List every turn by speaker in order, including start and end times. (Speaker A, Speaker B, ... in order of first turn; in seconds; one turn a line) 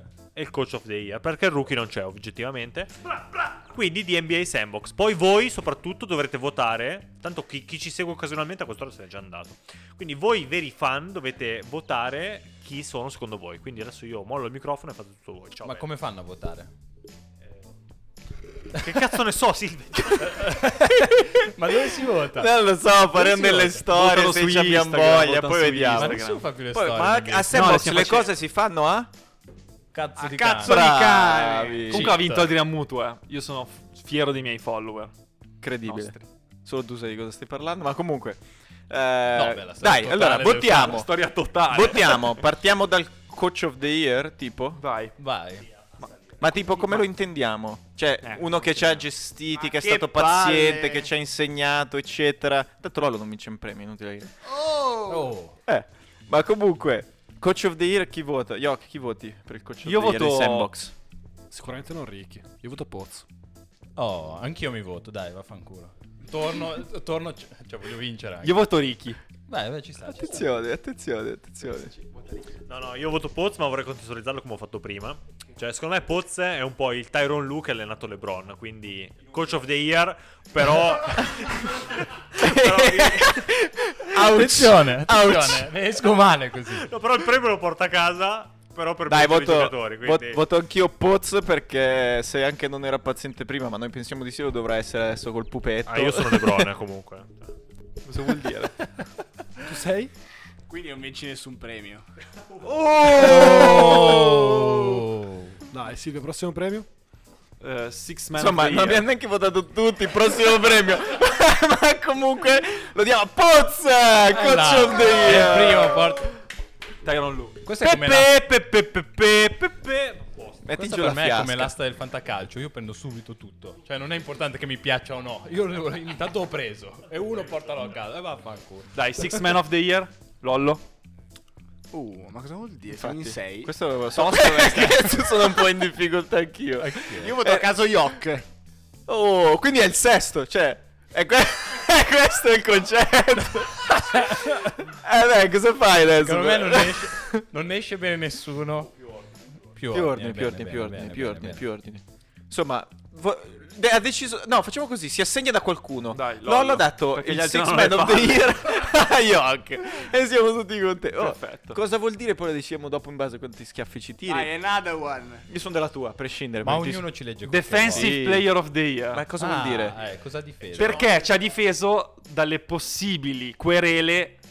Speaker A: 0.3-15.9
Speaker B: 15.6-16.7
Speaker A: 18.7-20.5
Speaker C: 20.2-21.5
Speaker B: 20.3-22.5
Speaker C: 22.2-26.2
Speaker D: 23.1-26.5
Speaker B: 25.9-27.8
Speaker C: 26.7-29.1
Speaker D: 27.5-28.3
Speaker B: 29.9-30.8
Speaker E: 30.2-32.0
Speaker C: 30.6-32.2
Speaker D: 31.9-35.1
Speaker B: 31.9-32.5
Speaker C: 35.6-44.8
Speaker D: 35.9-36.3
Speaker B: 39.3-41.0
Speaker D: 40.7-42.5
Speaker D: 44.8-45.2
Speaker B: 45.2-45.7
Speaker C: 46.4-54.4
Speaker D: 46.8-47.1
Speaker D: 48.2-49.1
Speaker E: 49.5-51.1
Speaker E: 54.5-55.4
Speaker B: 55.1-55.6
Speaker C: 55.6-60.9
Speaker D: 59.8-60.7
Speaker F: 61.5-63.3
Speaker B: 64.0-68.7
Speaker D: 68.4-69.2
Speaker B: 69.5-70.6
Speaker C: 70.0-71.9
Speaker A: 72.7-83.5
Speaker C: 81.3-85.8
Speaker B: 84.1-86.9
Speaker A: 86.7-90.4
Speaker C: 89.1-96.7
Speaker A: 95.9-97.5
Speaker D: 98.0-98.9
Speaker F: 99.6-100.1
Speaker E: 100.7-102.0
Speaker C: 102.6-104.3
Speaker B: 103.2-105.6
Speaker E: 103.3-103.7
Speaker F: 105.7-106.9
Speaker D: 107.6-109.1
Speaker C: 108.4-116.2
Speaker B: 114.3-116.4
Speaker D: 117.0-118.3
Speaker B: 117.6-118.4
Speaker C: 117.8-119.9
Speaker A: 119.9-120.6
Speaker C: 120.6-121.7
Speaker B: 120.8-129.0
Speaker D: 128.9-130.8
Speaker E: 131.9-133.7
Speaker C: 132.9-137.7
Speaker D: 134.1-135.4
Speaker B: 136.8-137.4
Speaker E: 137.1-138.4
Speaker C: 139.1-147.5
Speaker B: 144.1-144.5
Speaker B: 146.0-148.9
Speaker B: 149.8-151.7
Speaker C: 149.9-164.5
Speaker D: 156.1-158.6
Speaker D: 161.1-161.8
Speaker E: 164.3-165.5
Speaker C: 165.5-167.1
Speaker B: 166.6-168.2
Speaker D: 167.5-169.3
Speaker C: 167.9-168.5
Speaker C: 169.1-170.0
Speaker B: 169.3-171.1
Speaker C: 170.7-171.0
Speaker D: 170.8-174.4